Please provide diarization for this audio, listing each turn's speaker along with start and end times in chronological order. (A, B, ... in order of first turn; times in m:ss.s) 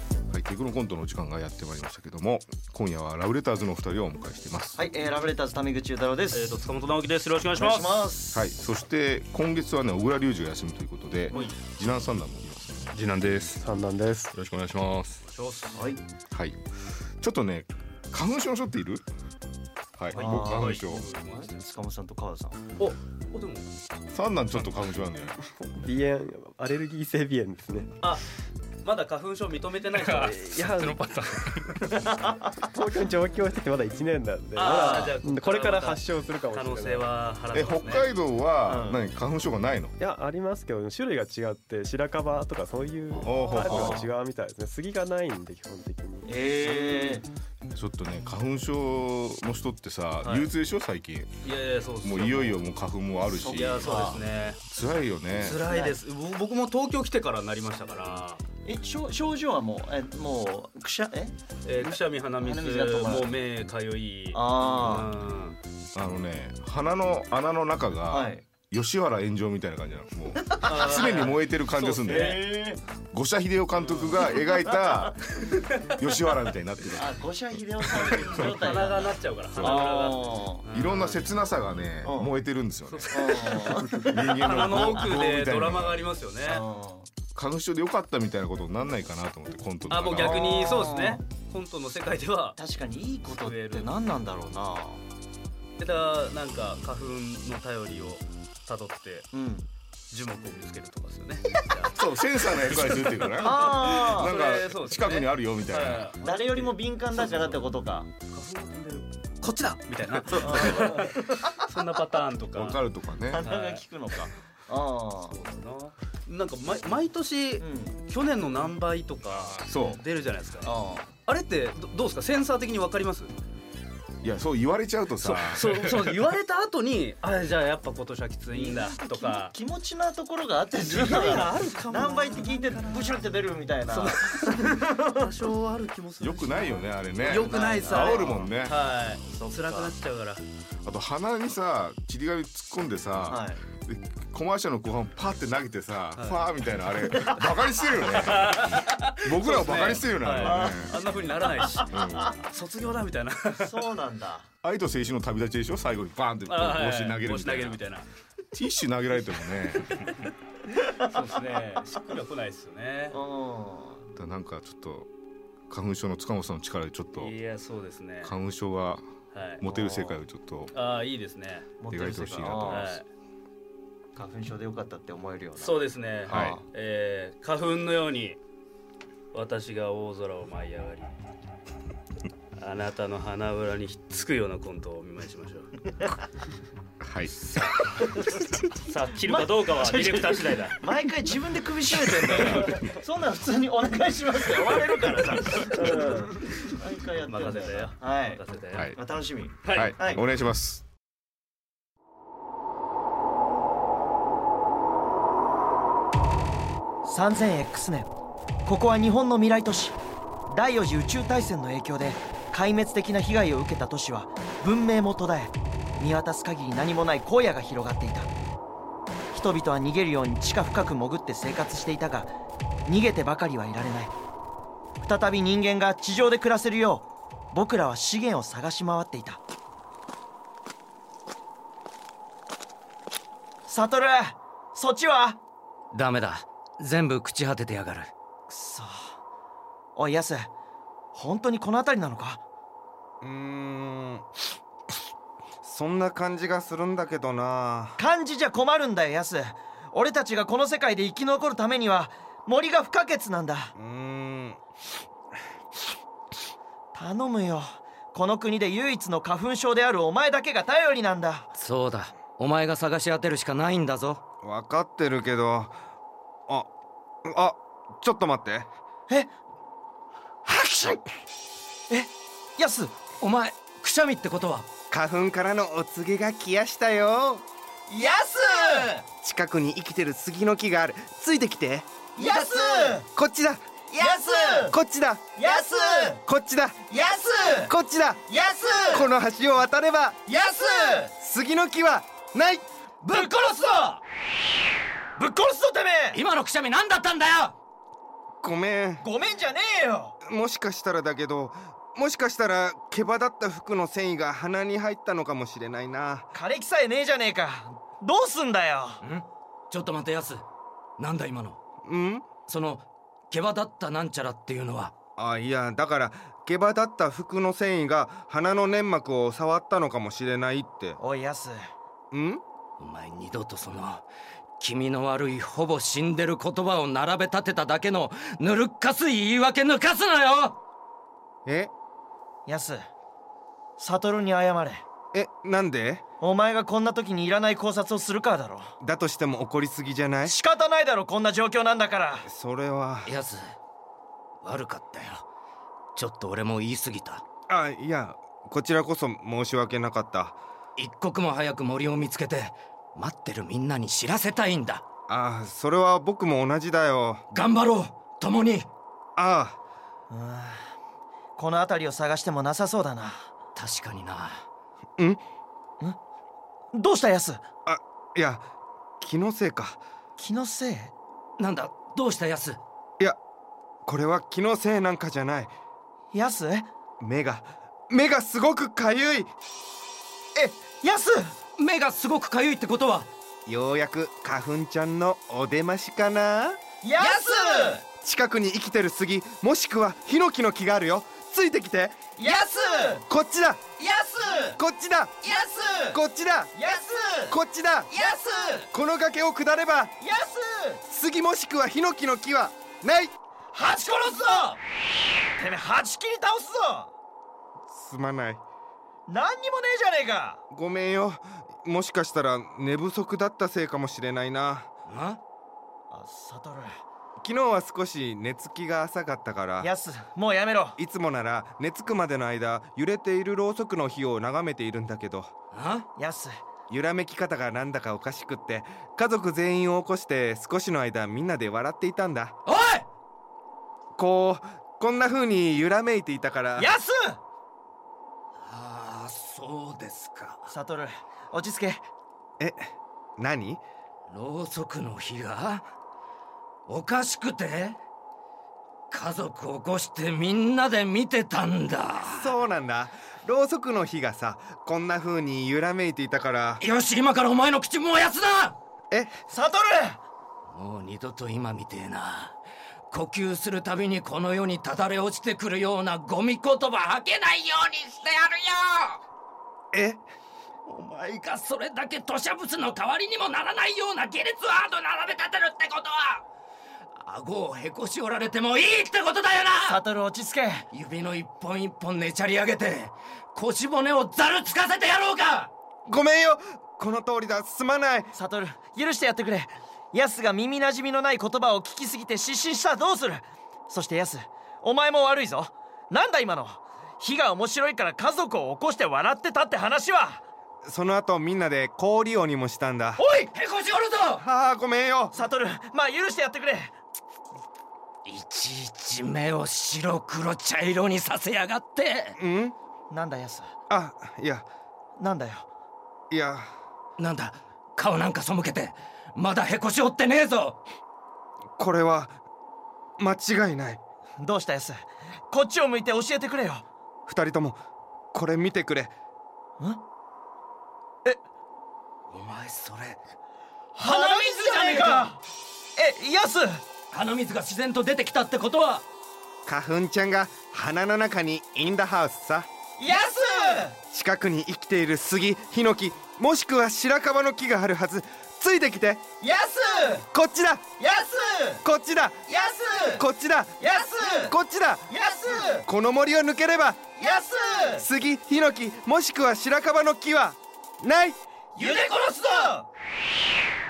0:00.3-0:04.8 A
0:04.7-0:06.5 B
0:06.4-0:07.8 C
0:07.6-0:08.4 B
0:08.3-0:13.6 A
0:13.6-0:14.3 D
0:14.3-0:15.2 A
0:15.7-0:16.0 B
0:16.3-0:16.6 A
0:17.2-0:19.0 A
0:20.0-0:21.1 A
0:20.1-0:20.6 B
0:20.1-0:21.4 E
0:21.3-0:22.6 B
0:23.3-0:23.6 C
0:24.1-0:25.4 A
0:25.4-0:28.1 D
0:28.9-0:30.3 C
0:29.9-0:31.5 D
0:32.1-0:37.1 D
0:34.6-0:35.8 C
0:34.6-0:35.1 E
0:36.6-0:37.9 C
0:37.5-0:39.9 A
0:38.6-0:39.0 B
0:40.0-0:46.6 D
0:43.1-0:44.1 A
0:46.2-0:47.2 B
0:47.7-0:51.4 A
0:51.5-0:52.4 C
0:52.0-0:55.6 A
0:53.4-0:54.2 B
0:53.4-0:54.1 E
0:53.6-0:54.5 C
0:55.5-0:58.4 C
0:55.7-0:56.0 B
0:58.6-1:01.3 B
1:01.7-1:05.5 C
1:01.8-1:03.2 F
1:02.4-1:03.2 B
1:04.3-1:05.1 B
1:04.6-1:05.0 E
1:05.9-1:26.1 A
1:08.1-1:08.4 B
1:10.7-1:11.3 E
1:10.8-1:11.2 C
1:11.0-1:11.2 F
1:11.9-1:12.4 C
1:12.5-1:12.8 B
1:13.9-1:14.2 E
1:17.0-1:19.0 B
1:17.9-1:19.1 E
1:18.8-1:20.1 C
1:19.6-1:20.4 E
1:19.6-1:20.6 B
1:20.6-1:21.1 C
1:22.0-1:22.3 B
1:23.1-1:24.1 B
1:23.1-1:25.0 E
1:24.4-1:26.5 C
1:26.5-1:27.1 B
1:27.3-1:30.8 A
1:30.0-1:32.5 C
1:30.3-1:31.3 E
1:30.5-1:30.8 F
1:30.8-1:31.2 B
1:32.6-1:35.0 B
1:33.4-1:33.8 F
1:33.4-1:33.9 C
1:35.8-1:39.1 C
1:39.3-1:39.7 B
1:40.1-1:41.3 C
1:41.9-1:46.1 A
1:43.4-1:44.3 B
1:43.4-1:44.3 E
1:44.3-1:45.1 C
1:45.8-1:46.1 C
1:46.2-1:48.1 B
1:47.1-1:47.6 E
1:48.4-1:48.8 E
1:49.4-1:52.5 C
1:50.1-1:51.5 E
1:50.4-1:51.0 A
1:50.4-1:51.2 B
1:50.5-1:50.9 F
1:52.5-1:53.4 A
1:53.3-1:55.4 B
1:55.4-1:57.5 C
1:57.6-1:58.0 B
1:58.1-1:59.5 C
1:59.6-2:00.0 A
2:00.1-2:00.6 C
2:00.6-2:01.1 B
2:01.3-2:03.3 C
2:04.2-2:06.1 A
2:05.8-2:09.5 C
2:08.5-2:09.4 F
2:08.9-2:15.2 B
2:10.8-2:12.8 E
2:13.9-2:18.5 E
2:16.2-2:18.8 A
2:17.3-2:18.3 F
2:17.4-2:18.2 B
2:18.9-2:20.4 C
2:19.3-2:19.9 B
2:20.8-2:31.0 A
2:23.3-2:23.6 B
2:29.4-2:31.8 C
2:29.9-2:30.7 E
2:31.4-2:32.2 E
2:31.8-2:32.4 A
2:32.6-2:33.6 C
2:33.6-2:34.4 B
2:34.6-2:37.9 A
2:36.5-2:38.0 C
2:38.5-2:40.1 A
2:41.1-2:43.1 C
2:43.1-2:44.0 B
2:44.2-2:45.1 A
2:45.7-2:47.3 A
2:47.3-2:48.2 C
2:48.2-2:49.0 A
2:49.6-2:50.7 A
2:49.6-2:50.2 B
2:50.8-2:51.6 C
2:51.8-2:52.8 B
2:51.9-2:53.0 A
2:52.7-2:53.0 C
2:54.1-2:56.6 B
2:55.8-2:58.4 C
2:56.2-2:56.6 A
2:59.3-3:01.0 C
3:02.6-3:05.6 C
3:07.0-3:07.6 A
3:09.1-3:10.7 E
3:09.1-3:10.7 C
3:09.3-3:18.4 B
3:12.1-3:12.8 E
3:14.7-3:16.2 E
3:15.6-3:16.0 F
3:17.3-3:17.8 C
3:18.4-3:18.7 C
3:18.7-3:19.0 A
3:19.0-3:20.2 B
3:19.5-3:20.8 A
3:27.0-3:28.1 G
3:28.6-3:30.0 G
3:30.5-3:38.3 G
3:39.3-3:42.3 G
3:42.8-3:44.1 G
3:45.0-3:49.4 G
3:53.7-3:55.4 G
3:55.9-3:58.1 E
3:58.5-3:59.1 G
4:00.0-4:00.5 G
4:01.1-4:02.4 G
4:03.2-4:04.3 F
4:05.6-4:08.0 F
4:08.0-4:13.7 G
4:13.8-4:14.6 F
4:16.9-4:21.5 G
4:21.6-4:24.2 E
4:24.4-4:25.7 F
4:27.2-4:28.7 F
4:30.5-4:31.0 G
4:31.9-4:32.9 G
4:33.2-4:34.7 E
4:34.9-4:37.4 F
4:37.9-4:39.0 G
4:39.2-4:41.9 F
4:42.2-4:43.0 G
4:42.2-4:42.9 E
4:43.1-4:43.6 F
4:43.9-4:44.7 G
4:44.0-4:44.5 E
4:44.7-4:45.3 F
4:45.4-4:46.2 G
4:45.4-4:46.0 E
4:46.2-4:46.8 F
4:46.9-4:47.7 E
4:47.7-4:48.2 F
4:48.3-4:49.0 G
4:48.9-4:50.2 F
4:50.3-4:51.1 G
4:50.3-4:51.0 E
4:51.2-4:52.6 F
4:53.0-4:54.0 E
4:55.2-4:56.2 G
4:56.1-4:57.5 E
4:58.4-4:59.0 F
4:59.0-5:00.1 G
5:00.2-5:06.3 F
5:06.3-5:09.0 G
5:09.0-5:10.4 E
5:11.0-5:11.6 E
5:11.8-5:12.3 F
5:12.5-5:14.9 E
5:15.2-5:21.0 F
5:21.0-5:21.6 G
5:22.1-5:22.4 F
5:22.8-5:24.0 E
5:24.6-5:30.6 E
5:31.4-5:31.7 F
5:32.4-5:32.8 G
5:33.8-5:34.8 G
5:35.1-5:36.0 F
5:36.2-5:38.7 G
5:38.8-5:40.4 F
5:40.2-5:42.2 G
5:42.2-5:43.1 F
5:43.0-5:43.4 E
5:44.4-5:45.2 E
5:45.9-5:47.2 E
5:47.5-5:50.4 F
5:50.8-5:54.8 E
5:55.1-5:57.2 F
5:57.3-5:58.7 E
5:59.2-5:59.6 F
6:00.1-6:00.7 G
6:01.4-6:03.2 G
6:03.5-6:04.4 E
6:06.7-6:07.4 G
6:07.6-6:08.4 F
6:09.0-6:09.8 F
6:10.2-6:10.9 G
6:11.4-6:12.6 E
6:13.8-6:15.5 F
6:16.1-6:16.7 G
6:17.0-6:19.3 F
6:20.4-6:21.3 G
6:21.6-6:23.1 E
6:23.4-6:26.6 F
6:26.8-6:27.8 G
6:27.0-6:27.8 E
6:28.0-6:32.0 F
6:32.2-6:33.0 G
6:32.2-6:32.9 E
6:33.1-6:33.6 F
6:33.8-6:34.6 E
6:34.6-6:35.2 F
6:35.2-6:36.0 E
6:35.9-6:36.5 F
6:36.5-6:37.4 G
6:37.3-6:37.9 F
6:37.9-6:38.7 E
6:38.7-6:39.9 F
6:40.0-6:40.8 G
6:40.9-6:43.1 F
6:43.5-6:44.5 G
6:44.2-6:44.5 E
6:45.4-6:46.9 G
6:47.7-6:48.4 F
6:49.1-6:50.4 G
6:50.5-6:54.7 F
6:54.9-6:55.2 E
6:55.9-6:56.7 G
6:57.2-6:59.7 F
6:59.6-7:00.8 G
7:00.8-7:05.3 F
7:05.5-7:05.8 E
7:06.0-7:06.4 G
7:06.7-7:12.3 F
7:12.4-7:12.8 E
7:14.0-7:16.7 F
7:16.6-7:17.2 G
7:18.4-7:20.4 E
7:20.5-7:21.8 G
7:22.4-7:23.6 F
7:24.1-7:25.6 E
7:26.7-7:27.8 E
7:28.9-7:32.3 E
7:32.0-7:36.6 F
7:36.6-7:38.6 E
7:38.9-7:39.2 F
7:39.3-7:40.0 G
7:40.5-7:42.4 E
7:42.9-7:49.0 E
7:49.7-7:50.0 F
7:50.6-7:56.2 E
7:56.9-7:59.8 E
7:59.6-8:00.6 G
8:00.7-8:05.5 E
8:05.8-8:08.1 F
8:08.1-8:20.2 G
8:20.6-8:23.0 F
8:23.0-8:23.3 G
8:23.3-8:24.2 E
8:24.2-8:25.1 F
8:25.1-8:26.7 G
8:28.0-8:32.1 E
8:32.2-8:32.5 F
8:32.9-8:33.5 G
8:33.7-8:34.4 F
8:35.0-8:35.4 G
8:36.1-8:36.5 F
8:37.0-8:40.6 E
8:41.6-8:42.2 F
8:43.0-8:43.8 F
8:44.2-8:46.6 G
8:47.1-8:47.6 F
8:48.1-8:48.9 F
8:52.1-8:53.0 E
8:53.8-8:55.2 G
8:53.8-8:55.1 E
8:55.8-8:56.6 G
8:56.9-8:58.8 E
8:59.4-9:02.5 F
9:02.8-9:03.8 G
9:03.9-9:09.0 F
9:09.2-9:10.0 G
9:10.1-9:10.6 F
9:10.8-9:11.6 G
9:11.6-9:12.2 F
9:12.3-9:13.0 G
9:13.0-9:13.6 F
9:13.6-9:14.3 G
9:14.2-9:14.8 F
9:14.9-9:15.7 G
9:15.6-9:16.9 F
9:17.0-9:17.8 G
9:17.8-9:21.2 F
9:21.6-9:22.6 G
9:21.6-9:22.5 E